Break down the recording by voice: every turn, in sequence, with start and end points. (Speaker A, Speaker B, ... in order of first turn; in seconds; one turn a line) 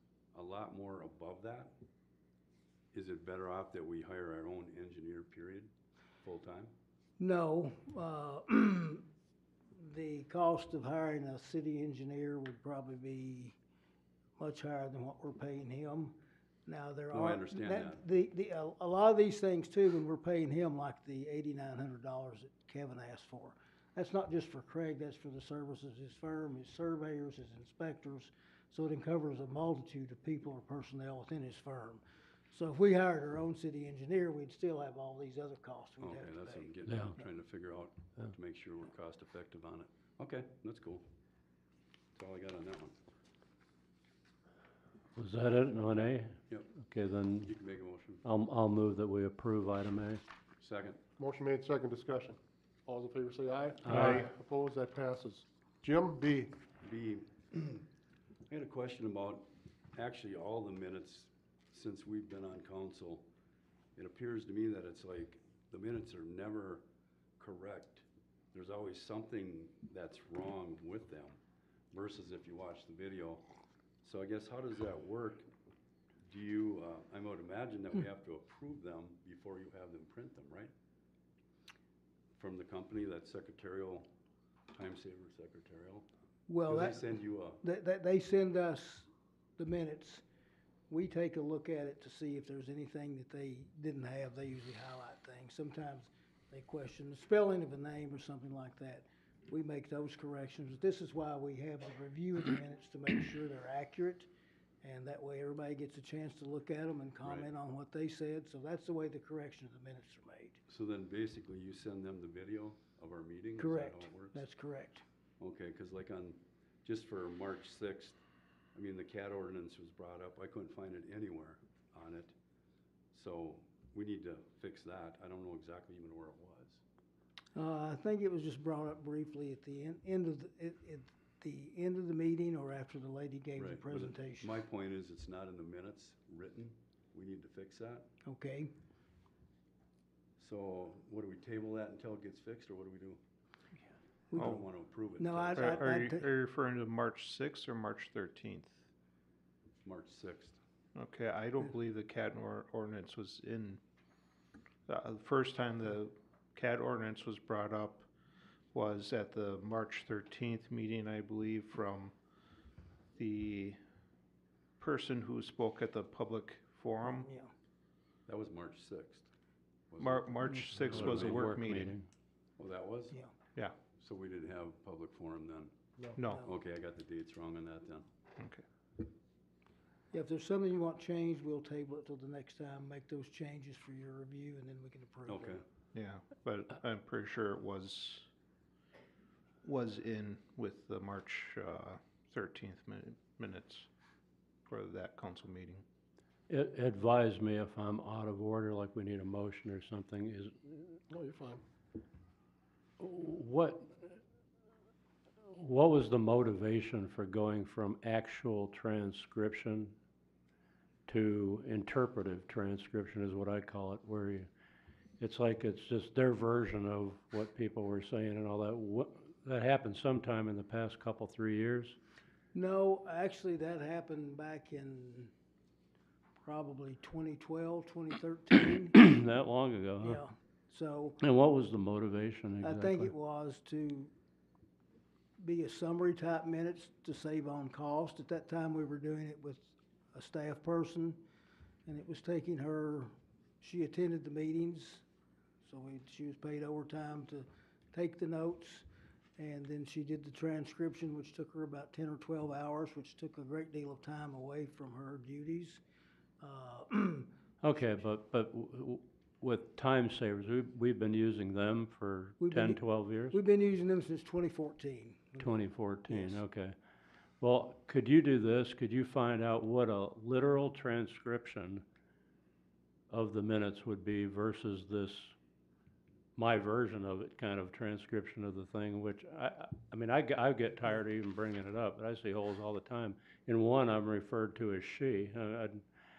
Speaker A: 0.3-1.7
Speaker A: 2.9-5.7
Speaker A: 6.2-6.7
Speaker B: 7.2-9.1
Speaker B: 9.8-13.6
Speaker B: 14.4-36.7
Speaker A: 17.1-18.0
Speaker A: 36.0-41.0
Speaker C: 36.9-37.2
Speaker A: 42.1-43.0
Speaker C: 45.1-47.5
Speaker A: 46.0-46.7
Speaker A: 47.4-48.2
Speaker C: 48.2-50.2
Speaker A: 50.6-51.0
Speaker D: 51.2-56.5
Speaker C: 53.8-54.3
Speaker A: 56.8-57.9
Speaker A: 58.5-63.3
Speaker A: 64.0-66.8
Speaker A: 67.4-71.4
Speaker A: 71.9-73.5
Speaker A: 74.0-75.5
Speaker A: 76.3-80.7
Speaker A: 82.4-84.1
Speaker A: 84.7-86.1
Speaker B: 86.5-90.2
Speaker A: 86.7-87.6
Speaker B: 90.9-104.3
Speaker B: 104.8-110.6
Speaker A: 107.2-107.5
Speaker A: 110.7-114.5
Speaker B: 113.6-115.0
Speaker A: 115.4-118.2
Speaker A: 118.8-122.3
Speaker A: 123.1-126.8
Speaker B: 127.5-134.5
Speaker A: 133.6-138.1
Speaker B: 138.2-138.7
Speaker A: 140.4-143.2
Speaker B: 144.3-144.6
Speaker A: 144.3-145.8
Speaker E: 144.4-144.6
Speaker B: 145.2-146.3
Speaker E: 145.6-148.8
Speaker A: 149.8-150.6
Speaker E: 150.9-153.8
Speaker E: 154.9-158.1
Speaker E: 158.7-162.1
Speaker E: 163.2-163.8
Speaker E: 164.8-167.3
Speaker B: 167.2-167.5
Speaker A: 168.3-169.3
Speaker A: 169.9-171.5
Speaker E: 170.0-171.9
Speaker C: 170.4-172.1
Speaker A: 172.6-173.2
Speaker A: 174.0-175.7
Speaker E: 176.2-176.5
Speaker A: 176.3-178.1
Speaker B: 180.1-185.6
Speaker A: 185.3-185.6
Speaker E: 185.9-188.3
Speaker E: 189.6-193.9
Speaker E: 194.7-195.8
Speaker C: 196.5-201.0
Speaker D: 201.1-201.6
Speaker C: 203.0-204.2
Speaker C: 205.5-210.0
Speaker C: 211.1-214.5
Speaker C: 215.2-222.0
Speaker B: 222.5-225.3
Speaker B: 226.4-228.9
Speaker C: 228.9-230.2
Speaker B: 230.0-231.2
Speaker C: 231.2-233.1
Speaker B: 232.6-234.1
Speaker B: 235.4-241.2
Speaker B: 241.9-243.1
Speaker B: 243.6-245.0
Speaker B: 245.6-248.9
Speaker B: 249.4-255.8
Speaker B: 256.4-258.0
Speaker C: 257.6-263.4
Speaker B: 262.4-266.4
Speaker C: 265.4-266.8
Speaker C: 267.4-271.9
Speaker C: 273.1-275.4
Speaker C: 276.4-285.8